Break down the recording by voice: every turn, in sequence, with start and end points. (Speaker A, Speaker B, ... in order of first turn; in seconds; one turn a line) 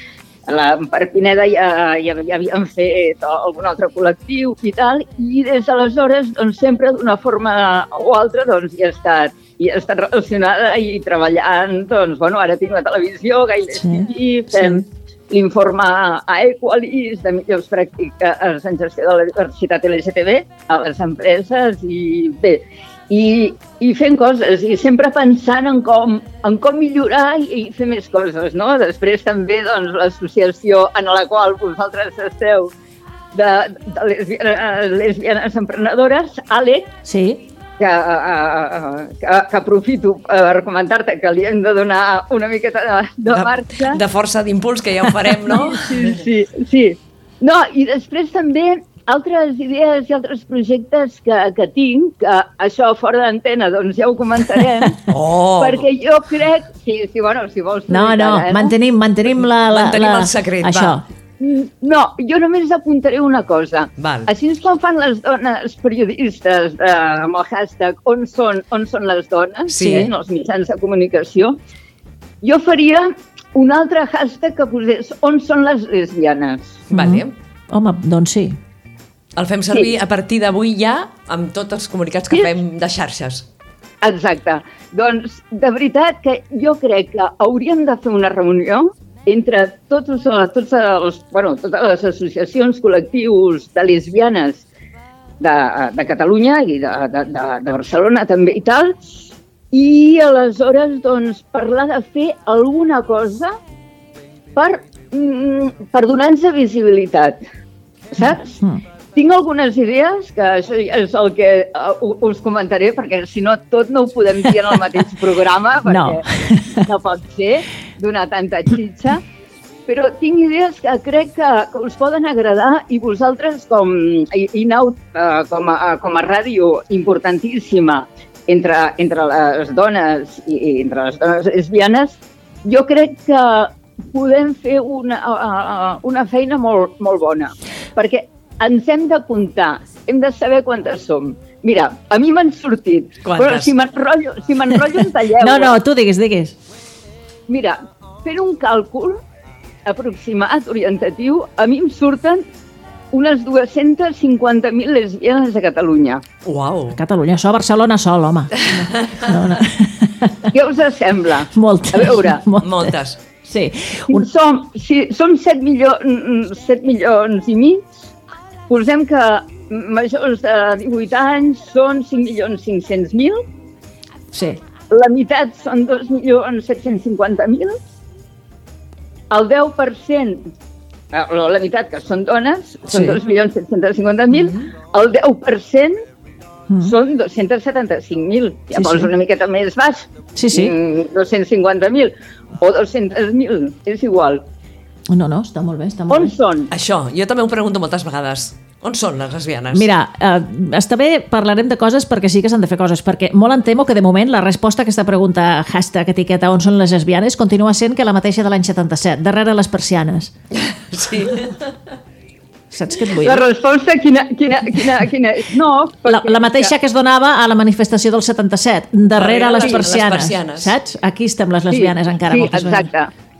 Speaker A: 0.5-32.7
Speaker B: 13.7-14.8
Speaker A: 33.3-36.9
Speaker B: 37.0-37.4
Speaker A: 37.8-44.0
Speaker C: 43.3-46.0
Speaker A: 45.5-55.0
Speaker C: 55.1-55.9
Speaker A: 55.6-58.7
Speaker B: 57.9-61.0
Speaker C: 59.6-61.0
Speaker A: 61.4-71.6
Speaker C: 64.0-64.3
Speaker C: 69.7-70.1
Speaker B: 69.8-70.1
Speaker A: 72.4-76.8
Speaker C: 76.9-77.3
Speaker B: 76.9-78.6
Speaker C: 79.3-83.5
Speaker A: 84.0-94.7
Speaker A: 95.4-103.5
Speaker A: 104.5-107.4
Speaker A: 108.1-108.6
Speaker B: 108.2-108.8
Speaker A: 109.1-119.2
Speaker B: 115.8-116.9
Speaker A: 119.9-145.7
Speaker C: 143.2-143.7
Speaker B: 145.4-146.6
Speaker A: 147.5-149.2
Speaker A: 149.8-152.4
Speaker A: 153.1-156.2
Speaker C: 156.4-157.0
Speaker B: 156.9-160.5
Speaker A: 160.5-162.4
Speaker B: 161.5-164.3
Speaker C: 162.6-163.2
Speaker A: 164.1-167.9
Speaker A: 168.7-173.4
Speaker B: 174.3-174.6
Speaker A: 174.9-177.8
Speaker A: 179.3-180.5
Speaker A: 181.1-185.9
Speaker B: 182.9-183.2
Speaker B: 186.7-186.9
Speaker A: 186.8-194.4
Speaker B: 188.7-189.1
Speaker B: 190.3-190.7
Speaker B: 195.1-196.3
Speaker A: 196.1-196.7
Speaker C: 196.7-199.9
Speaker B: 199.7-210.3
Speaker C: 210.7-211.7
Speaker B: 212.7-213.5
Speaker A: 213.2-216.7
Speaker B: 216.1-222.9
Speaker C: 219.1-220.7
Speaker A: 221.7-223.1